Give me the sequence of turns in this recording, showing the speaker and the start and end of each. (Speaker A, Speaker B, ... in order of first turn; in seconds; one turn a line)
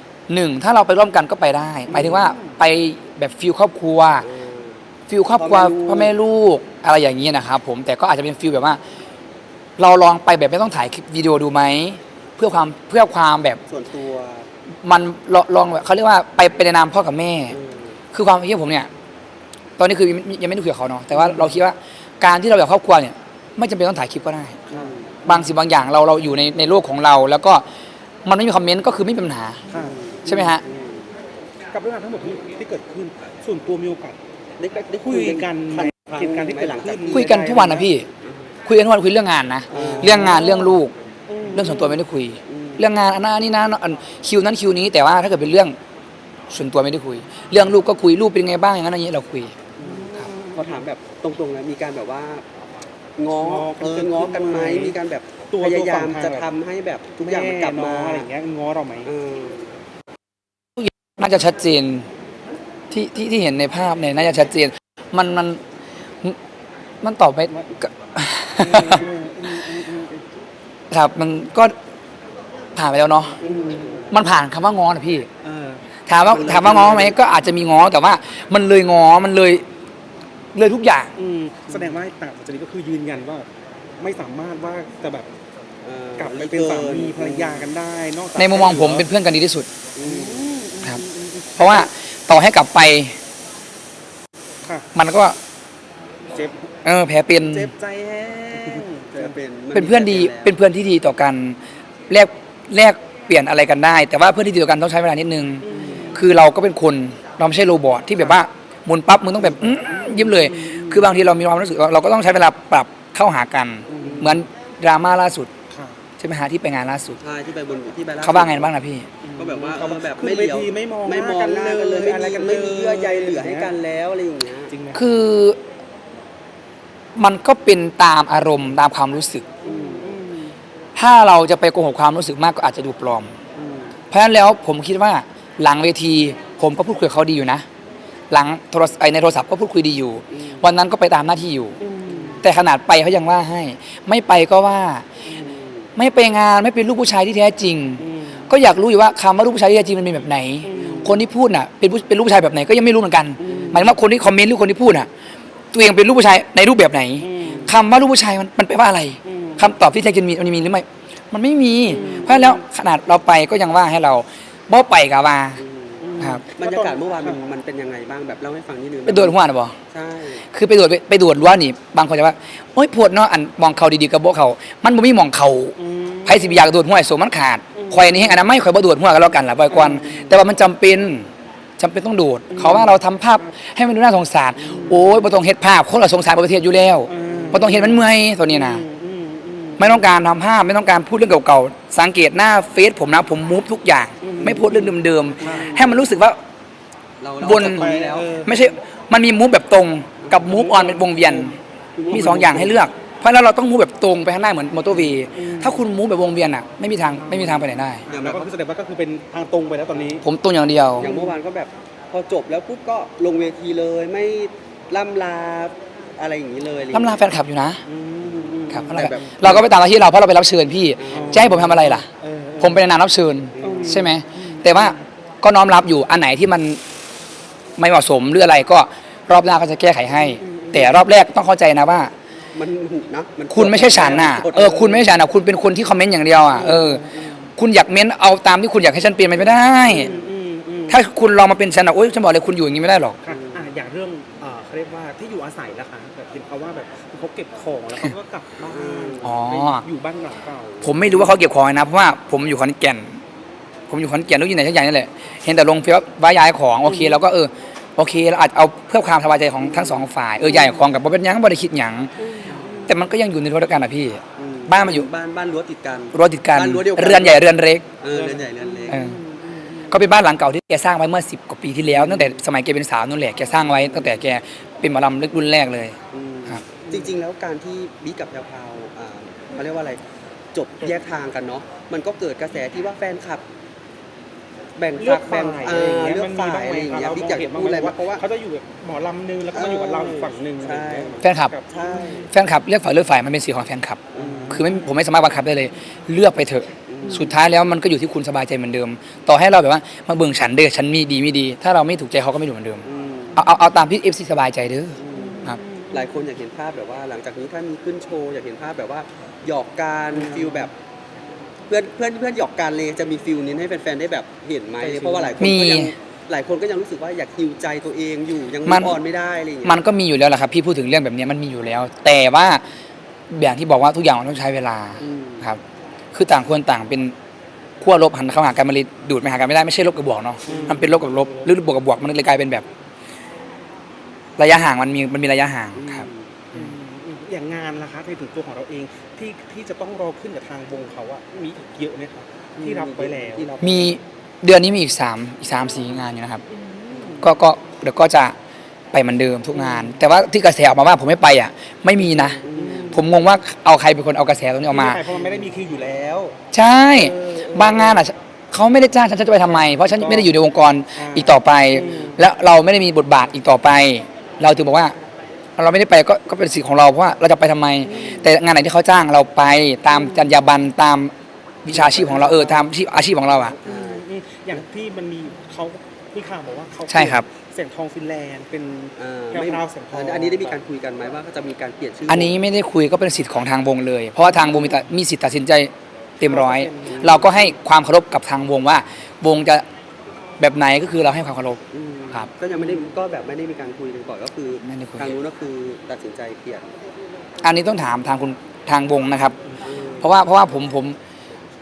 Speaker A: 0.3-4.3
Speaker B: 1.9-2.4
Speaker C: 2.1-2.5
Speaker B: 4.2-4.8
Speaker A: 5.1-8.8
Speaker B: 5.4-6.2
Speaker A: 9.8-13.6
Speaker B: 13.7-14.5
Speaker A: 14.8-17.6
Speaker B: 17.5-18.0
Speaker A: 18.1-18.9
Speaker A: 19.8-24.6
Speaker C: 21.1-21.5
Speaker B: 24.7-25.2
Speaker C: 24.7-25.5
Speaker A: 25.3-27.6
Speaker A: 28.2-29.6
Speaker C: 29.7-29.9
Speaker B: 29.8-31.1
Speaker A: 30.3-30.6
Speaker C: 31.7-34.2
Speaker B: 34.6-37.3
Speaker C: 35.0-37.9
Speaker A: 37.1-38.1
Speaker A: 38.6-40.9
Speaker B: 39.7-40.6
Speaker C: 39.7-40.8
Speaker C: 41.3-42.0
Speaker A: 41.5-45.8
Speaker B: 42.5-42.8
Speaker A: 46.5-49.5
Speaker B: 49.8-52.5
Speaker C: 49.8-50.8
Speaker B: 53.2-58.3
Speaker C: 53.3-55.0
Speaker C: 55.5-56.5
Speaker C: 57.2-59.1
Speaker B: 59.0-59.7
Speaker A: 60.8-62.1
Speaker A: 62.9-65.6
Speaker A: 67.0-69.1
Speaker C: 68.6-70.2
Speaker A: 70.9-71.7
Speaker A: 72.8-73.4
Speaker C: 73.4-74.0
Speaker B: 73.4-74.1
Speaker A: 74.1-75.3
Speaker C: 75.4-75.8
Speaker A: 76.1-79.6
Speaker B: 76.3-77.2
Speaker A: 80.5-81.1
Speaker C: 81.2-83.5
Speaker C: 84.0-85.3
Speaker B: 85.8-87.7
Speaker C: 86.2-89.1
Speaker A: 88.4-89.7
Speaker B: 90.0-90.5
Speaker C: 90.0-91.9
Speaker A: 91.6-93.2
Speaker C: 94.6-94.9
Speaker A: 95.0-95.4
Speaker C: 96.3-96.6
Speaker A: 96.8-97.7
Speaker C: 97.4-99.3
Speaker B: 99.1-100.5
Speaker A: 99.7-101.6
Speaker A: 102.1-115.5
Speaker C: 105.6-106.2
Speaker B: 105.7-106.2
Speaker C: 109.5-111.0
Speaker B: 113.9-114.4
Speaker C: 113.9-114.3
Speaker C: 115.7-116.0
Speaker A: 116.2-117.2
Speaker B: 117.2-118.7
Speaker A: 118.2-119.1
Speaker C: 119.2-123.7
Speaker B: 119.4-124.7
Speaker C: 124.7-125.1
Speaker A: 124.9-125.6
Speaker A: 127.2-129.5
Speaker B: 129.6-130.2
Speaker C: 129.6-130.5
Speaker A: 131.0-133.4
Speaker B: 133.6-133.9
Speaker A: 134.1-137.7
Speaker A: 138.3-141.8
Speaker C: 141.8-142.4
Speaker B: 142.0-142.4
Speaker A: 142.4-145.1
Speaker B: 145.3-145.9
Speaker A: 146.0-155.1
Speaker C: 148.0-148.5
Speaker C: 150.6-151.2
Speaker B: 150.7-151.2
Speaker B: 153.4-153.9
Speaker C: 153.4-153.9
Speaker A: 155.7-165.6
Speaker C: 157.2-157.8
Speaker C: 159.3-159.7
Speaker B: 161.9-162.6
Speaker C: 161.9-162.5
Speaker B: 165.6-170.4
Speaker C: 166.0-167.4
Speaker A: 169.1-169.8
Speaker A: 170.5-188.8
Speaker C: 175.8-176.7
Speaker C: 177.8-178.4
Speaker C: 179.7-180.4
Speaker C: 182.5-183.5
Speaker C: 184.6-185.3
Speaker C: 187.1-190.1
Speaker B: 187.2-187.7
Speaker A: 189.8-196.4
Speaker C: 194.2-195.8
Speaker B: 194.2-194.9
Speaker B: 195.4-196.0
Speaker B: 197.2-198.3
Speaker A: 197.4-197.9
Speaker C: 197.4-198.8
Speaker A: 198.4-201.6
Speaker B: 200.2-200.5
Speaker C: 200.3-201.6
Speaker B: 202.0-202.8
Speaker C: 202.1-202.7
Speaker A: 202.1-208.1
Speaker C: 205.3-205.8
Speaker C: 207.2-210.3
Speaker B: 208.1-208.5
Speaker A: 210.2-211.1
Speaker B: 211.0-217.2
Speaker C: 211.0-211.3
Speaker A: 216.9-217.8
Speaker C: 217.9-219.5
Speaker B: 218.2-219.7
Speaker A: 218.7-222.1
Speaker B: 221.0-221.7
Speaker C: 221.1-222.8
Speaker A: 222.6-226.8
Speaker C: 223.6-225.0
Speaker B: 223.6-224.1
Speaker A: 227.8-232.1
Speaker C: 230.2-231.1
Speaker B: 232.6-235.1
Speaker A: 233.5-237.1
Speaker C: 236.5-237.5
Speaker B: 236.6-236.9
Speaker A: 237.6-240.1
Speaker C: 239.8-241.0
Speaker B: 239.9-240.3
Speaker A: 240.9-243.2
Speaker C: 243.2-251.3
Speaker B: 243.3-243.7
Speaker B: 248.7-249.4
Speaker A: 249.2-249.8
Speaker A: 250.8-253.2
Speaker A: 253.9-262.1
Speaker B: 259.7-260.0
Speaker B: 262.3-262.9
Speaker C: 262.4-262.9
Speaker A: 262.9-265.1
Speaker B: 264.4-269.2
Speaker A: 266.1-267.9
Speaker C: 268.1-269.4
Speaker A: 268.9-269.2
Speaker A: 269.9-276.0
Speaker B: 271.9-272.4
Speaker B: 276.1-280.0
Speaker B: 280.5-283.4
Speaker B: 284.8-288.2
Speaker C: 285.0-292.3
Speaker B: 289.5-292.3
Speaker A: 291.2-291.5
Speaker A: 292.3-302.9
Speaker B: 294.1-294.6
Speaker C: 294.2-294.7
Speaker B: 296.9-297.3
Speaker B: 302.9-303.4
Speaker A: 303.4-305.6
Speaker B: 305.0-310.7
Speaker C: 305.1-306.2
Speaker C: 310.1-310.7
Speaker B: 311.7-319.8
Speaker C: 314.8-315.5
Speaker A: 315.4-315.9
Speaker A: 318.6-319.0
Speaker A: 319.6-322.6
Speaker A: 323.3-325.6
Speaker B: 325.0-325.5
Speaker A: 326.1-327.1
Speaker A: 327.8-332.7
Speaker C: 330.4-331.5
Speaker B: 330.5-330.8
Speaker A: 334.4-336.1
Speaker B: 335.8-336.3
Speaker C: 336.5-343.5
Speaker B: 342.6-343.9
Speaker A: 343.6-346.4
Speaker C: 346.5-347.3
Speaker A: 347.2-348.4
Speaker A: 348.9-355.0
Speaker C: 349.6-349.9
Speaker C: 352.1-353.1
Speaker B: 352.4-353.0
Speaker C: 354.7-356.4
Speaker B: 355.1-355.5
Speaker A: 356.5-364.9
Speaker C: 357.0-358.0
Speaker B: 357.4-357.7
Speaker C: 359.5-360.4
Speaker C: 360.9-362.2
Speaker A: 365.6-371.1
Speaker C: 367.9-368.3
Speaker C: 369.9-370.4
Speaker A: 371.6-373.6
Speaker C: 371.7-372.7
Speaker B: 373.4-374.1
Speaker C: 373.6-380.6
Speaker A: 376.9-377.3
Speaker B: 379.0-382.4
Speaker A: 382.1-389.6
Speaker C: 386.2-387.5
Speaker B: 386.9-387.2
Speaker A: 390.4-391.6
Speaker B: 391.7-396.7
Speaker C: 392.5-392.8
Speaker A: 394.6-395.1
Speaker A: 397.4-399.4
Speaker B: 399.6-400.1
Speaker A: 400.0-401.0